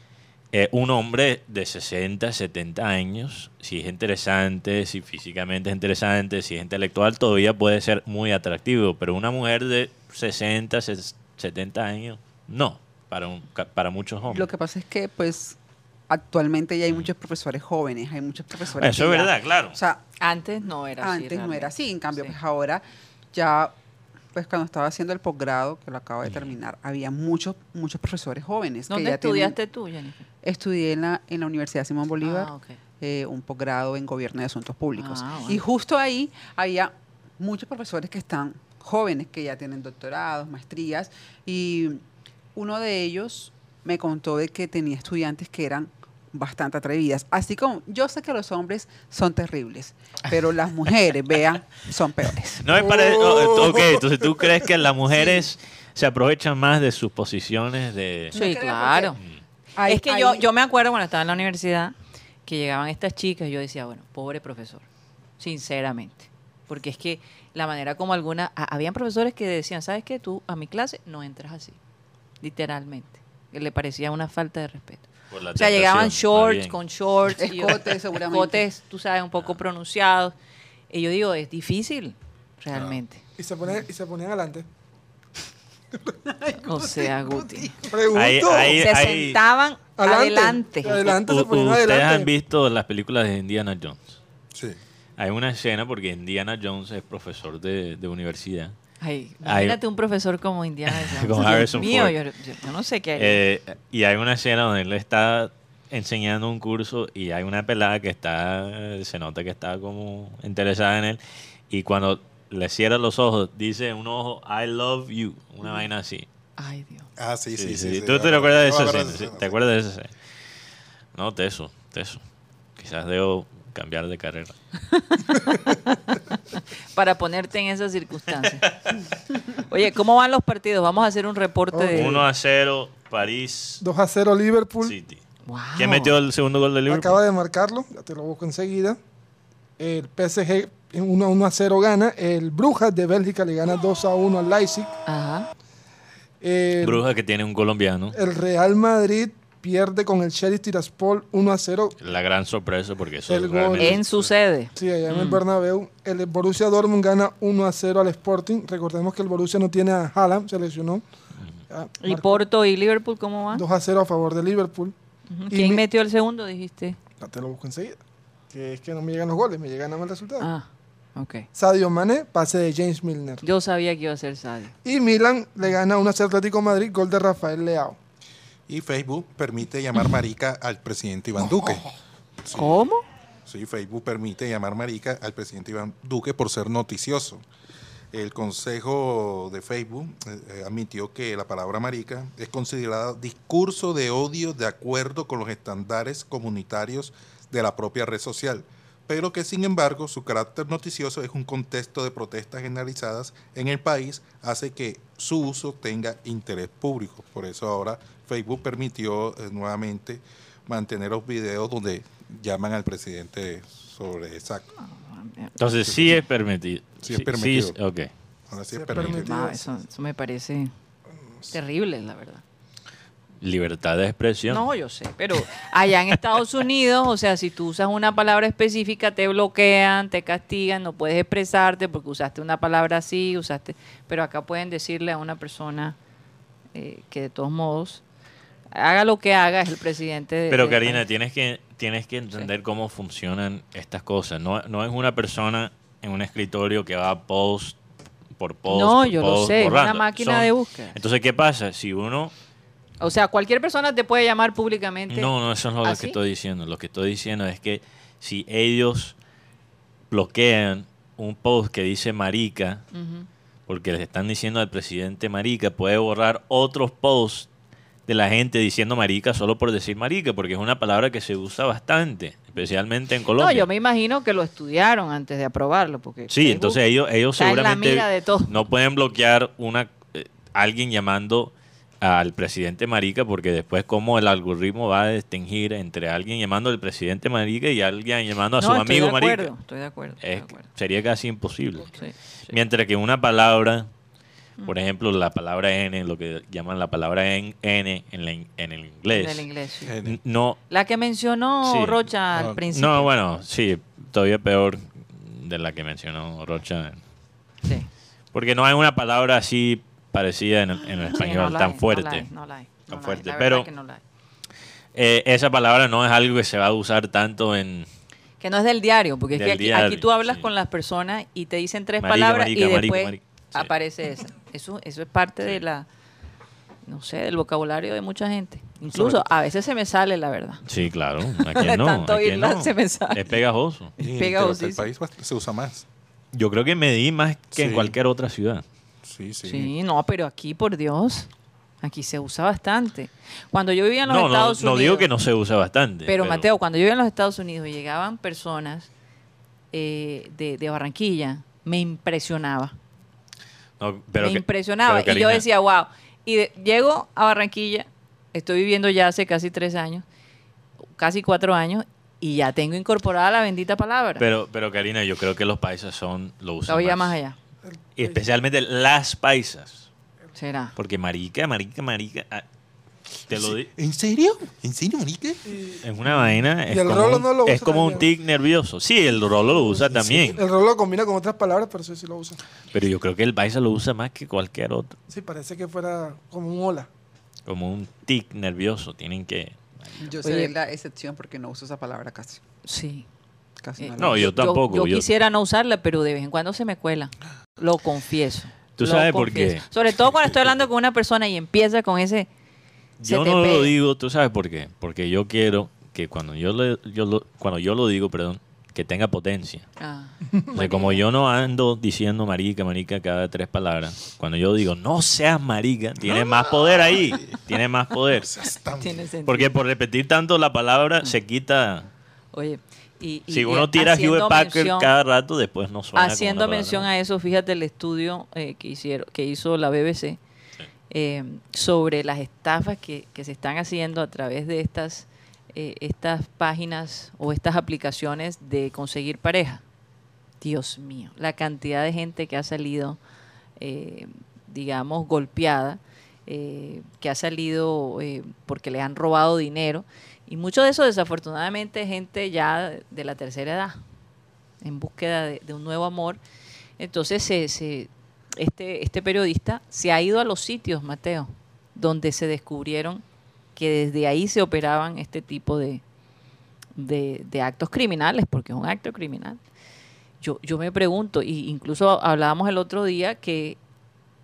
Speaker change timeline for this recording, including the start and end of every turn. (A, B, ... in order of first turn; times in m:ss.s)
0:00.5-0:14.5 A
0:14.3-0:15.6 B
0:16.1-0:20.0 B
0:18.8-0:19.8 A
0:20.2-0:22.4 C
0:21.0-0:23.7 B
0:24.3-0:29.6 B
0:28.9-0:30.2 C
0:30.4-0:42.0 B
0:32.2-0:32.8 C
0:35.0-0:35.6 C
0:42.6-0:52.7 B
0:52.6-0:58.3 A
0:52.8-0:54.5 D
0:58.3-0:59.2 B
0:58.3-0:59.2 C
0:59.8-1:00.4 B
0:59.9-1:01.9 C
1:02.5-1:04.8 C
1:05.4-1:11.8 C
1:12.4-1:20.4 C
1:15.3-1:16.8 A
1:17.4-1:18.6 B
1:20.9-1:23.2 C
1:23.4-1:24.6 D
1:26.2-1:27.9 B
1:26.7-1:27.7 C
1:27.9-1:28.8 D
1:28.1-1:29.4 A
1:28.7-1:31.0 C
1:30.0-1:32.3 D
1:31.0-1:34.2 A
1:35.2-1:38.8 A
1:39.0-1:43.4 C
1:39.4-1:39.8 A
1:40.9-1:42.2 A
1:43.2-1:51.2 A
1:51.7-1:56.3 A
1:56.6-1:57.1 C
1:57.2-1:59.6 E
1:57.6-2:00.1 A
2:01.1-2:02.2 A
2:02.8-2:04.6 A
2:04.9-2:05.6 C
2:07.0-2:08.6 C
2:08.6-2:08.9 A
2:09.6-2:12.2 C
2:11.7-2:12.2 D
2:11.9-2:13.8 A
2:13.8-2:15.0 D
2:14.8-2:15.2 A
2:15.5-2:16.1 C
2:15.8-2:17.2 A
2:16.9-2:19.0 D
2:19.8-2:24.9 D
2:25.1-2:25.5 C
2:26.4-2:27.0 D
2:26.8-2:28.2 A
2:28.1-2:32.0 D
2:32.0-2:34.0 A
2:33.3-2:34.0 D
2:33.8-2:35.4 C
2:34.8-2:41.0 D
2:41.7-2:42.4 D
2:42.0-2:43.6 C
2:43.5-2:44.9 D
2:45.3-2:47.0 C
2:45.5-2:45.8 D
2:47.2-2:48.0 D
2:48.5-2:50.5 D
2:50.4-2:51.5 C
2:51.6-2:53.4 D
2:53.4-2:54.7 C
2:54.8-2:58.0 D
2:58.7-3:01.8 E
3:02.4-3:02.9 E
3:02.5-3:03.0 C
3:03.5-3:07.4 E
3:08.1-3:34.7 E
3:34.8-3:35.5 C
3:35.6-3:38.1 A
3:35.8-3:36.2 E
3:37.0-3:37.8 E
3:38.5-3:39.3 E
3:38.7-3:39.7 D
3:39.0-3:40.7 C
3:41.5-3:42.4 C
3:43.4-3:44.7 A
3:44.5-3:56.0 C
3:56.7-3:58.0 C
3:58.7-4:01.0 C
4:00.5-4:07.8 A
4:08.4-4:12.3 A
4:08.7-4:11.0 C
4:13.0-4:15.3 C
4:15.1-4:19.2 A
4:15.8-4:16.2 C
4:20.1-4:22.8 A
4:22.9-4:23.3 C
4:23.7-4:27.5 A
4:28.1-4:33.7 A
4:33.4-4:36.8 C
4:36.3-4:49.5 A
4:37.4-4:38.6 C
4:48.6-4:50.7 C
4:50.2-4:51.9 A
4:51.9-4:52.6 C
4:52.5-4:53.9 A
4:54.7-4:59.5 A
4:59.1-4:59.9 C
4:59.8-5:00.2 E
5:00.0-5:00.6 A
5:00.7-5:03.1 C
5:01.6-5:02.0 A
5:02.3-5:02.6 E
5:02.7-5:07.0 A
5:08.3-5:12.3 A
5:11.1-5:14.0 C
5:12.9-5:13.7 A
5:14.9-5:17.9 A
5:18.4-5:25.9 C
5:19.3-5:20.5 A
5:22.0-5:23.7 A
5:26.9-5:30.6 C
5:28.9-5:29.3 A
5:30.7-5:33.9 A
5:31.4-5:33.4 C
5:34.0-5:35.8 E
5:34.0-5:34.9 C
5:36.3-5:38.6 A
5:37.6-5:38.0 E
5:39.0-5:39.7 E
5:39.4-5:41.3 C
5:41.8-5:45.1 C
5:44.1-5:46.5 A
5:46.1-5:48.9 C
5:49.7-5:52.8 C
5:53.8-5:55.4 A
5:54.2-6:00.0 C
6:01.0-6:04.2 C
6:04.2-6:07.2 A
6:06.7-6:07.4 C
6:08.0-6:09.9 A
6:10.4-6:10.7 C
6:10.8-6:12.4 A
6:13.3-6:13.7 A
6:13.3-6:15.4 E
6:15.5-6:18.1 D
6:15.8-6:20.4 A
6:19.9-6:20.4 E
6:20.3-6:22.4 D
6:22.7-6:25.0 A
6:25.1-6:26.9 D
6:27.5-6:30.0 A
6:30.0-6:32.4 B
6:30.2-6:30.5 C
6:32.6-6:33.1 C
6:33.6-6:34.4 B
6:33.8-6:42.3 C
6:34.0-6:35.1 A
6:38.8-6:39.6 A
6:43.0-6:49.7 A
6:43.0-6:43.7 C
6:49.8-6:51.0 C
6:50.5-6:58.3 A
6:56.2-6:57.3 E
6:58.1-6:59.0 E
6:58.8-6:59.5 C
6:59.3-7:01.9 A
7:02.3-7:04.9 C
7:03.3-7:06.9 A
7:06.0-7:10.2 C
7:10.9-7:19.6 C
7:20.4-7:23.0 C
7:23.6-7:33.8 C
7:34.6-7:36.2 C
7:36.8-7:43.0 C
7:43.6-7:45.8 C
7:46.8-7:49.4 C
7:50.2-7:53.6 C